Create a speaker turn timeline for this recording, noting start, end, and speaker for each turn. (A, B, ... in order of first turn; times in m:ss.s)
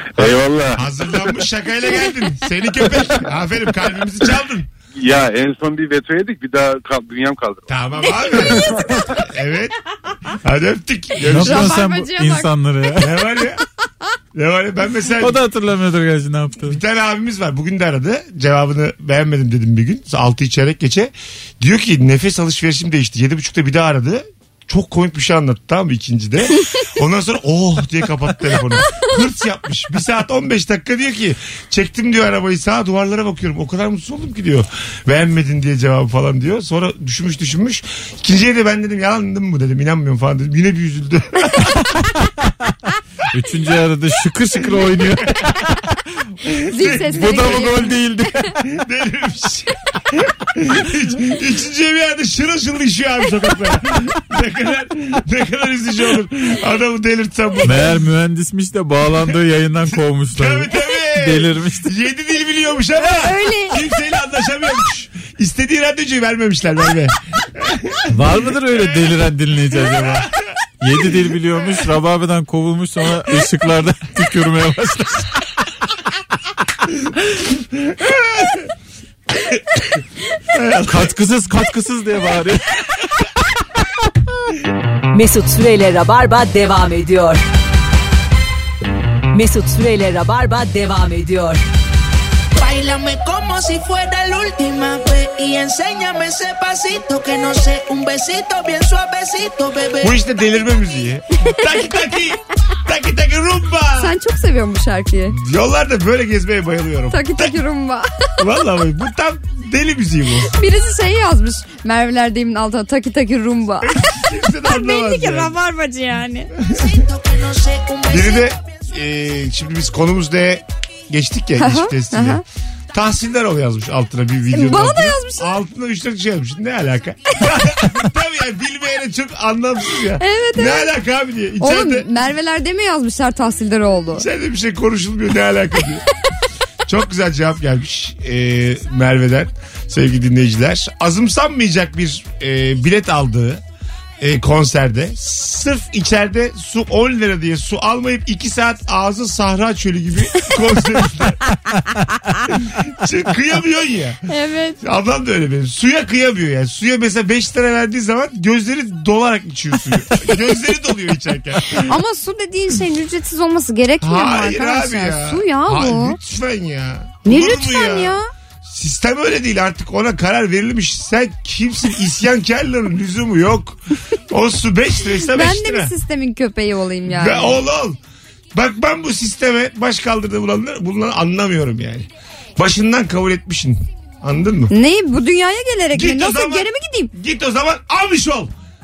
0:00.2-0:00.8 A
0:00.2-0:04.7 B
0:05.0-0:07.8 A
0:07.7-0:09.8 B
0:08.0-0:08.7 C
0:10.3-0:11.8 B
0:11.2-0:12.5 C
0:11.2-0:13.1 D
0:13.0-0:13.6 B
0:14.3-0:15.4 B
0:15.2-0:16.8 D
0:16.6-0:41.7 B
0:43.3-0:46.0 D
0:46.4-0:47.7 B
0:46.7-0:48.0 C
0:47.0-0:48.5 D
0:48.6-0:58.0 B
0:57.6-1:01.9 D
0:59.9-1:09.1 B
1:03.0-1:03.8 C
1:08.1-1:10.3 D
1:09.9-1:10.3 B
1:10.8-1:15.5 D
1:17.7-1:18.6 B
1:19.5-1:19.8 B
1:20.5-1:21.1 B
1:20.8-1:22.8 D
1:25.1-1:27.4 E
1:29.3-1:31.6 E
1:32.6-1:40.1 F
1:40.0-1:44.1 B
1:44.0-1:45.4 C
1:45.3-1:47.6 B
1:47.1-1:48.1 C
1:48.4-1:50.5 B
1:50.5-1:53.9 C
1:53.8-1:55.5 B
1:54.6-1:56.5 C
1:56.6-1:57.0 B
1:56.7-1:58.6 F
1:58.1-2:12.1 B
2:01.6-2:02.4 C
2:04.5-2:05.6 C
2:10.2-2:10.9 C
2:11.6-2:14.2 C
2:14.1-2:16.0 B
2:16.8-2:23.6 B
2:24.2-2:31.4 B
2:32.5-2:34.2 B
2:34.3-2:34.8 C
2:34.8-2:41.9 B
2:41.8-2:46.2 C
2:44.0-2:55.9 B
2:47.2-2:48.3 C
2:55.3-2:57.6 C
2:57.1-2:58.0 B
2:58.5-3:04.7 B
3:04.7-3:07.1 C
3:05.9-3:08.5 B